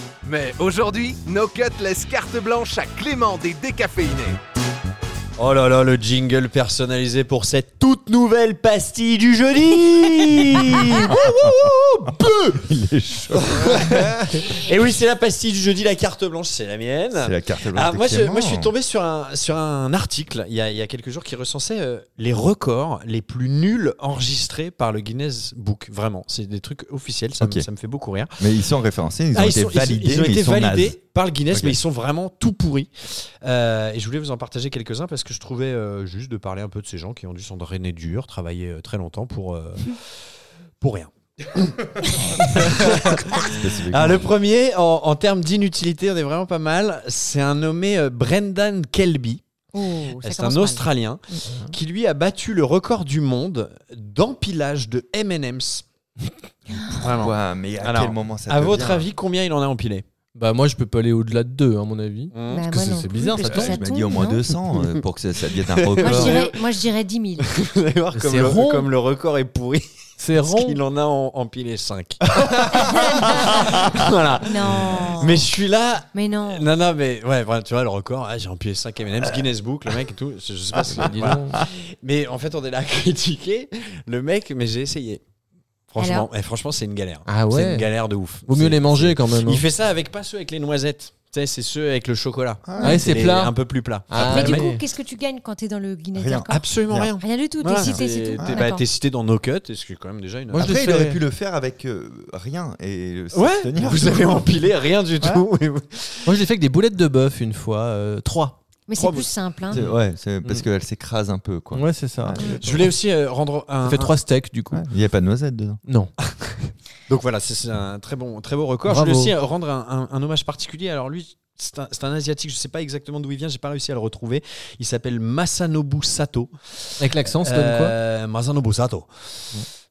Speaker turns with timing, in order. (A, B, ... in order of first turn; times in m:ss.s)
0:00.2-0:04.4 A
0:05.4-0:12.6 B
0:11.0-0:14.4 C
0:13.3-0:28.5 B
0:17.2-0:18.7 C
0:27.4-0:27.7 C
0:28.4-0:31.0 C
0:29.3-0:40.1 B
0:31.5-0:31.8 C
0:40.8-0:49.4 B
0:42.6-0:44.3 C
0:49.7-0:51.4 D
0:50.2-0:55.8 B
0:56.9-1:00.0 B
0:57.0-0:59.0 C
1:00.3-1:02.3 E
1:02.3-1:03.8 B
1:02.5-1:04.4 D
1:03.2-1:06.4 C
1:05.8-1:06.6 B
1:06.0-1:07.5 D
1:07.5-1:25.2 B
1:08.1-1:08.9 E
1:10.2-1:10.8 E
1:12.7-1:15.4 D
1:16.1-1:16.7 D
1:20.8-1:21.6 E
1:25.9-1:34.7 B
1:26.0-1:26.3 D
1:27.3-1:27.9 E
1:28.5-1:29.6 E
1:32.6-1:33.2 C
1:32.8-1:33.0 D
1:32.8-1:33.5 E
1:34.1-1:34.8 E
1:34.2-1:36.6 D
1:36.2-1:37.1 C
1:36.5-1:40.7 B
1:37.2-1:38.8 D
1:37.8-1:38.6 C
1:40.5-1:41.2 E
1:40.6-1:44.5 C
1:43.3-1:46.3 B
1:46.2-1:48.6 E
1:48.9-1:49.9 D
1:49.0-1:49.3 B
1:49.7-1:52.7 C
1:51.7-1:52.9 E
1:52.4-1:54.1 B
1:53.8-1:54.8 E
1:54.7-1:55.8 C
1:55.8-1:56.1 E
1:57.1-2:09.6 B
1:58.8-1:59.3 E
2:07.0-2:08.0 E